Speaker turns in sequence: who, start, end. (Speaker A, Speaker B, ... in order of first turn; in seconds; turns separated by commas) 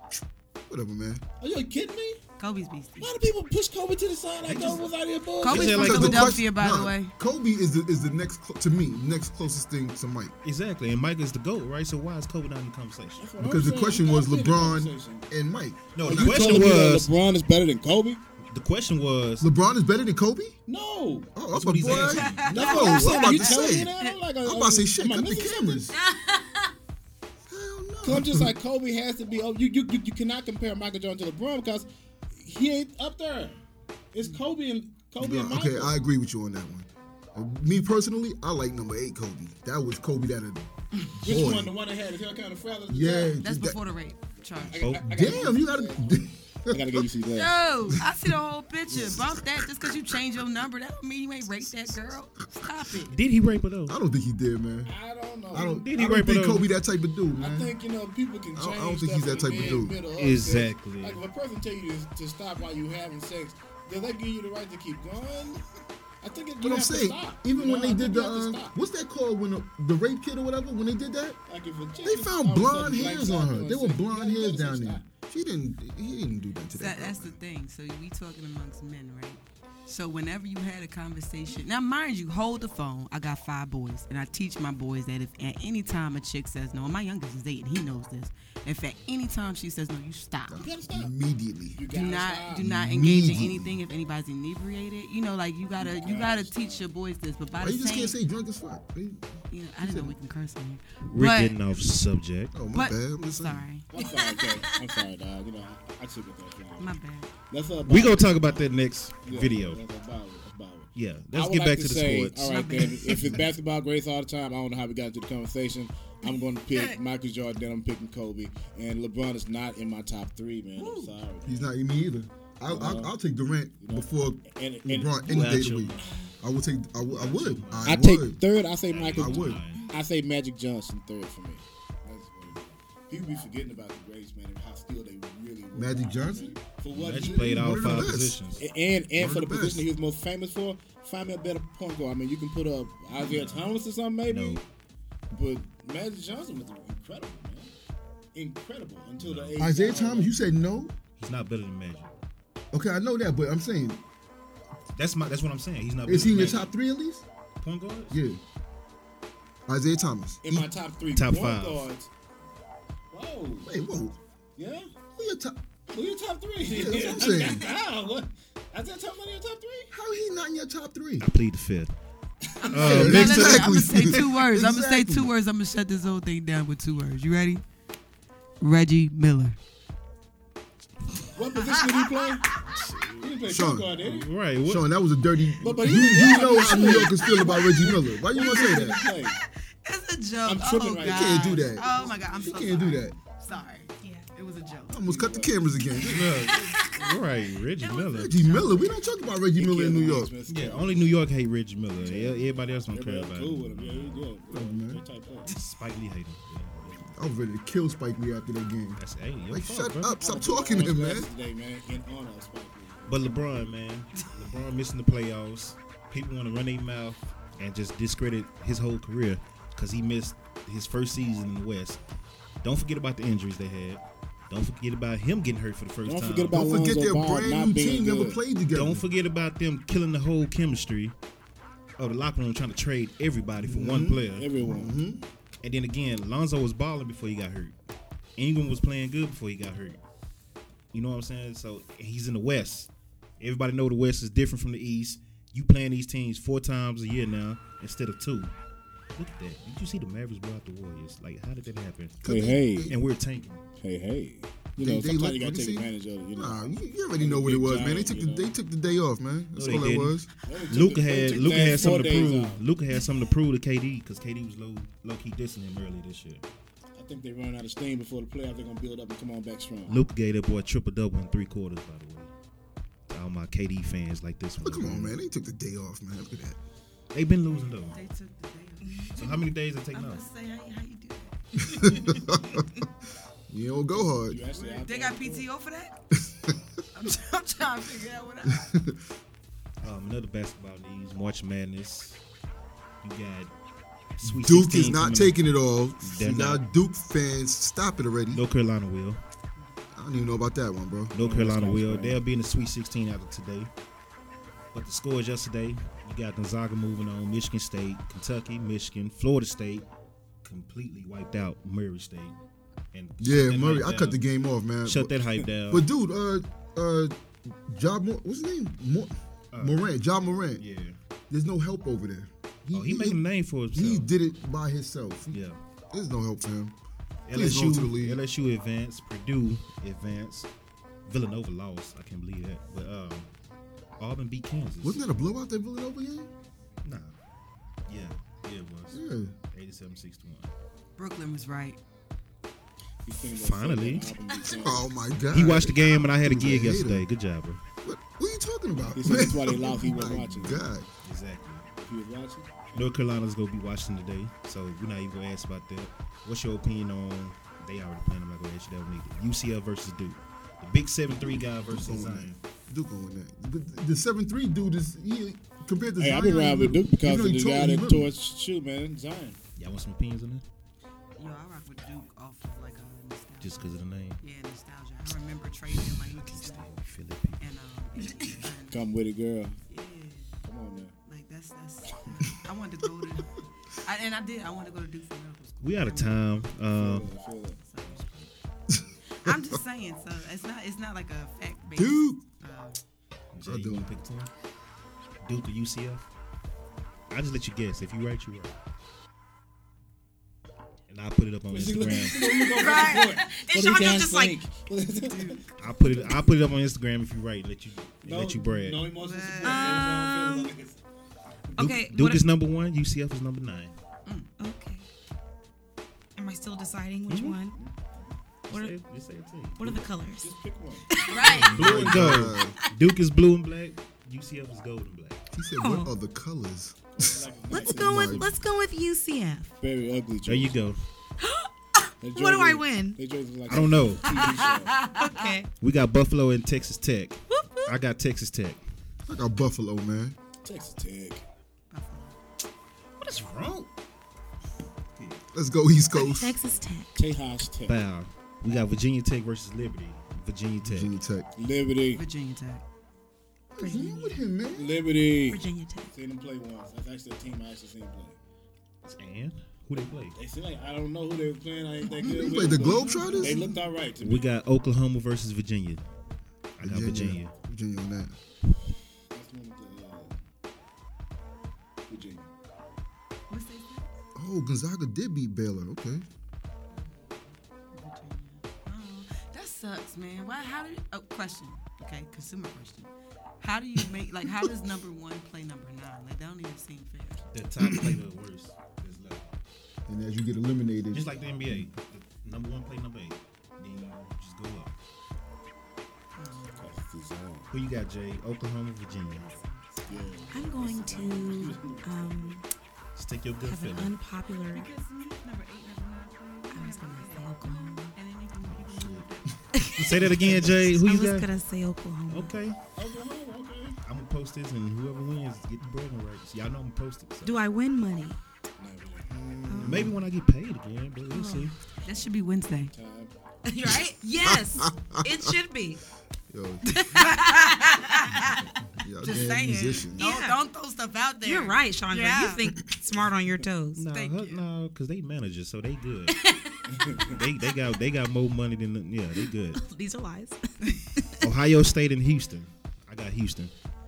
Speaker A: 0.7-1.2, Speaker B: 1.4-2.2, Speaker C: 2.4-3.1, Speaker B: 3.0-6.1, Speaker D: 4.4-4.9, Speaker C: 5.4-7.1, Speaker D: 5.4-6.4, Speaker A: 5.5-10.3, Speaker D: 10.4-13.3, Speaker B: 13.2-15.3, Speaker A: 13.4-16.9, Speaker D: 15.9-17.1, Speaker B: 16.1-18.2, Speaker D: 18.5-19.5, Speaker A: 19.4-20.6, Speaker B: 20.7-21.3, Speaker A: 21.4-25.9, Speaker D: 21.5-22.5, Speaker B: 21.9-25.9, Speaker C: 22.1-24.2, Speaker C: 26.1-26.4, Speaker A: 27.5-28.6, Speaker B: 28.0-33.6, Speaker B: 34.1-35.9, Speaker A: 35.2-41.7, Speaker B: 41.2-43.4, Speaker A: 42.9-43.8, Speaker C: 43.4-44.9, Speaker B: 44.5-47.6, Speaker D: 44.7-45.1, Speaker A: 45.0-47.1, Speaker C: 47.3-53.2, Speaker A: 47.9-48.3, Speaker A: 48.9-50.2, Speaker D: 53.1-54.0, Speaker A: 53.9-54.9, Speaker B: 54.9-55.9, Speaker A: 55.5-57.7, Speaker D: 55.5-56.7, Speaker B: 57.4-65.6, Speaker A: 58.5-60.0, Speaker D: 60.1-61.2, Speaker B: 66.2-68.8, Speaker A: 66.6-71.4, Speaker B: 71.5-75.0, Speaker A: 72.0-77.4, Speaker C: 76.7-90.7, Speaker A: 90.5-91.8, Speaker B: 90.6-91.1, Speaker B: 91.8-92.7, Speaker C: 91.9-98.2, Speaker A: 92.6-93.8, Speaker B: 95.8-96.9, Speaker A: 97.6-100.2, Speaker C: 99.5-101.6, Speaker D: 101.1-102.5, Speaker A: 102.5-103.6, Speaker C: 102.7-103.9, Speaker B: 103.9-106.9, Speaker E: 104.0-104.8, Speaker C: 106.8-107.3, Speaker B: 107.5-108.7, Speaker D: 107.8-109.8, Speaker B: 109.2-121.7, Speaker D: 111.0-112.9, Speaker C: 112.4-113.3, Speaker C: 120.8-121.2, Speaker A: 121.4-128.4, Speaker B: 122.7-123.1, Speaker B: 123.8-125.7, Speaker D: 125.2-126.3, Speaker D: 127.0-128.1, Speaker B: 127.8-138.0, Speaker D: 128.9-129.8, Speaker A: 129.2-129.6, Speaker A: 135.7-136.6, Speaker D: 136.9-138.6, Speaker A: 137.2-138.4, Speaker B: 138.6-144.6, Speaker A: 139.1-139.9, Speaker D: 143.2-143.7, Speaker D: 144.3-144.6, Speaker B: 145.3-147.7, Speaker B: 148.3-150.3, Speaker D: 149.2-149.6, Speaker A: 149.6-150.9, Speaker D: 151.2-152.2, Speaker A: 152.7-154.0, Speaker D: 154.9-156.7, Speaker A: 156.1-157.2, Speaker D: 157.6-158.2, Speaker A: 158.1-158.4, Speaker A: 159.7-160.7, Speaker B: 160.4-162.1, Speaker D: 161.1-161.9, Speaker B: 163.1-163.7, Speaker A: 163.7-164.2, Speaker B: 164.6-164.9, Speaker A: 165.2-165.6, Speaker B: 165.9-169.9, Speaker A: 166.6-167.7, Speaker A: 169.9-171.3, Speaker D: 171.2-171.9, Speaker B: 172.6-173.2, Speaker C: 172.6-177.6, Speaker D: 172.7-173.7, Speaker A: 172.8-175.3, Speaker C: 178.6-179.6, Speaker B: 181.3-184.3, Speaker C: 181.6-182.8, Speaker A: 183.5-183.9, Speaker D: 184.0-184.8, Speaker A: 184.6-189.1, Speaker B: 185.6-189.4, Speaker C: 185.8-187.8, Speaker C: 189.3-195.0, Speaker B: 190.4-192.8, Speaker A: 191.0-193.2, Speaker E: 194.0-194.3, Speaker A: 194.9-196.3, Speaker B: 195.1-195.6, Speaker C: 195.9-197.2, Speaker D: 196.1-198.4, Speaker A: 197.9-200.3, Speaker C: 198.4-199.0, Speaker B: 199.6-201.3, Speaker D: 200.5-204.3, Speaker B: 202.0-205.5, Speaker A: 204.5-205.0, Speaker D: 205.5-207.1, Speaker A: 207.1-211.3, Speaker D: 209.0-210.2, Speaker B: 210.2-213.7, Speaker D: 213.1-222.0, Speaker D: 222.6-226.6, Speaker B: 226.1-228.4, Speaker A: 226.5-229.1, Speaker D: 228.7-231.2, Speaker D: 232.0-234.5, Speaker A: 233.6-235.2, Speaker B: 234.3-235.0, Speaker D: 235.6-237.8, Speaker D: 238.4-240.0, Speaker D: 240.9-248.5, Speaker D: 249.2-252.2, Speaker A: 252.2-253.0, Speaker B: 252.2-252.9, Speaker D: 252.9-253.7, Speaker B: 253.8-258.5, Speaker A: 254.8-260.3, Speaker D: 259.6-266.4, Speaker B: 260.4-262.6, Speaker B: 266.9-270.0, Speaker D: 269.9-272.3, Speaker D: 273.1-275.2, Speaker A: 274.6-276.6, Speaker D: 277.1-278.0, Speaker C: 277.9-282.2, Speaker D: 279.1-280.2, Speaker A: 281.6-282.9, Speaker A: 283.5-284.4, Speaker B: 284.2-285.5, Speaker C: 284.5-285.9, Speaker A: 286.1-286.6, Speaker C: 286.9-288.7, Speaker A: 288.5-289.0, Speaker D: 289.8-292.2, Speaker D: 293.0-293.5, Speaker D: 294.2-295.4, Speaker A: 294.2-298.4, Speaker D: 296.0-296.6, Speaker D: 298.3-299.2, Speaker C: 299.6-299.9, Speaker A: 299.9-301.1, Speaker D: 301.1-303.7, Speaker B: 301.2-302.2, Speaker D: 304.7-309.9, Speaker D: 310.4-312.4, Speaker D: 312.9-314.2, Speaker A: 313.2-320.6, Speaker D: 314.8-315.9, Speaker D: 319.5-319.9, Speaker D: 320.6-321.0, Speaker A: 321.3-323.2, Speaker D: 322.7-324.1, Speaker A: 323.8-325.4, Speaker D: 325.3-325.6, Speaker A: 325.9-326.8, Speaker D: 327.3-330.5, Speaker A: 327.3-328.2, Speaker D: 331.1-333.3, Speaker D: 334.0-335.0, Speaker A: 334.8-336.3, Speaker D: 336.8-337.1, Speaker D: 337.9-339.0, Speaker A: 338.9-339.4, Speaker D: 339.5-340.5, Speaker C: 341.0-341.8, Speaker B: 343.1-344.8, Speaker D: 343.2-344.2, Speaker A: 344.5-347.1, Speaker D: 345.3-347.6, Speaker A: 347.8-350.9, Speaker B: 348.9-350.8, Speaker D: 351.0-351.7, Speaker B: 351.7-352.9, Speaker D: 352.8-362.4, Speaker A: 361.3-368.1, Speaker B: 366.0-369.4, Speaker D: 369.6-370.4, Speaker C: 371.2-376.7, Speaker D: 373.4-374.2, Speaker D: 375.7-377.4, Speaker C: 377.4-378.8, Speaker B: 378.7-379.6, Speaker C: 379.7-380.5, Speaker B: 380.4-380.9, Speaker C: 381.1-386.3, Speaker D: 385.6-387.1, Speaker B: 386.7-387.9, Speaker C: 387.6-388.3, Speaker A: 388.7-389.6, Speaker C: 389.1-392.8, Speaker A: 391.7-392.2, Speaker D: 393.3-394.3, Speaker A: 393.4-393.9, Speaker D: 395.2-396.1, Speaker D: 397.1-398.6, Speaker D: 400.9-402.3, Speaker B: 401.5-405.4, Speaker E: 402.3-404.4, Speaker C: 402.5-403.2, Speaker C: 405.1-406.0, Speaker D: 405.6-408.9, Speaker B: 408.0-410.8, Speaker C: 408.9-409.9, Speaker E: 409.4-410.5, Speaker E: 411.6-412.2, Speaker D: 411.6-413.7, Speaker E: 414.4-414.9, Speaker E: 416.2-417.6, Speaker D: 417.1-417.4, Speaker B: 417.5-418.1, Speaker D: 418.5-419.7, Speaker E: 418.5-418.8, Speaker E: 419.6-420.3, Speaker B: 419.6-420.9, Speaker E: 420.9-421.5, Speaker C: 421.1-421.6, Speaker D: 421.2-425.3, Speaker A: 421.6-422.6, Speaker A: 425.3-428.3, Speaker E: 425.6-425.9, Speaker B: 426.9-428.4, Speaker E: 427.5-429.6, Speaker B: 429.6-430.6, Speaker D: 430.2-430.8, Speaker E: 431.2-433.0, Speaker B: 432.0-434.8, Speaker D: 433.5-434.5, Speaker E: 433.5-434.3, Speaker C: 434.2-435.4, Speaker E: 434.9-435.5, Speaker D: 435.6-438.6, Speaker E: 437.3-437.7, Speaker A: 439.1-440.2, Speaker B: 440.4-441.2, Speaker C: 441.7-442.2, Speaker D: 443.0-443.7, Speaker D: 444.9-445.2, Speaker A: 445.3-446.4, Speaker E: 445.9-447.1, Speaker B: 446.9-447.8, Speaker D: 447.7-451.0, Speaker A: 450.6-451.3, Speaker B: 451.4-452.0, Speaker C: 451.9-452.6, Speaker A: 453.5-454.8, Speaker E: 453.6-454.1, Speaker C: 453.6-454.1, Speaker B: 454.5-458.2, Speaker E: 455.3-455.9, Speaker D: 458.8-460.2, Speaker B: 459.8-464.3, Speaker A: 461.9-463.5, Speaker C: 462.2-463.6, Speaker D: 464.0-465.8, Speaker D: 466.6-467.3, Speaker A: 466.6-468.1, Speaker B: 469.1-470.2, Speaker B: 471.9-472.3, Speaker C: 473.3-474.0, Speaker A: 474.1-476.0, Speaker C: 476.7-487.2, Speaker D: 487.3-489.2, Speaker A: 487.6-488.0, Speaker A: 489.9-491.7, Speaker D: 490.9-494.7, Speaker C: 496.2-496.8, Speaker B: 496.6-497.5, Speaker D: 497.5-499.2, Speaker C: 499.1-500.6, Speaker B: 499.9-502.4, Speaker E: 500.3-502.5, Speaker D: 502.9-503.9, Speaker E: 503.4-504.7, Speaker C: 504.5-509.4, Speaker E: 506.5-507.9, Speaker D: 508.6-509.0, Speaker A: 509.3-510.6, Speaker E: 509.6-512.3, Speaker D: 509.8-511.3, Speaker D: 512.1-512.6, Speaker B: 512.8-513.8, Speaker D: 513.9-517.4, Speaker E: 517.2-518.2, Speaker B: 518.6-519.5, Speaker A: 519.1-520.0, Speaker E: 519.5-519.9, Speaker D: 519.6-521.5, Speaker E: 521.1-521.5, Speaker C: 521.8-522.7, Speaker B: 522.7-523.1, Speaker E: 523.5-525.8, Speaker A: 524.2-525.4, Speaker A: 526.3-527.0, Speaker E: 526.7-528.3, Speaker C: 526.9-528.5, Speaker A: 528.7-530.0, Speaker C: 529.0-532.5, Speaker E: 529.9-530.4, Speaker E: 531.2-533.8, Speaker D: 533.8-536.2, Speaker C: 533.9-534.4, Speaker E: 536.1-536.6, Speaker B: 536.7-537.2, Speaker D: 537.1-539.6, Speaker E: 539.5-541.3, Speaker D: 541.2-543.5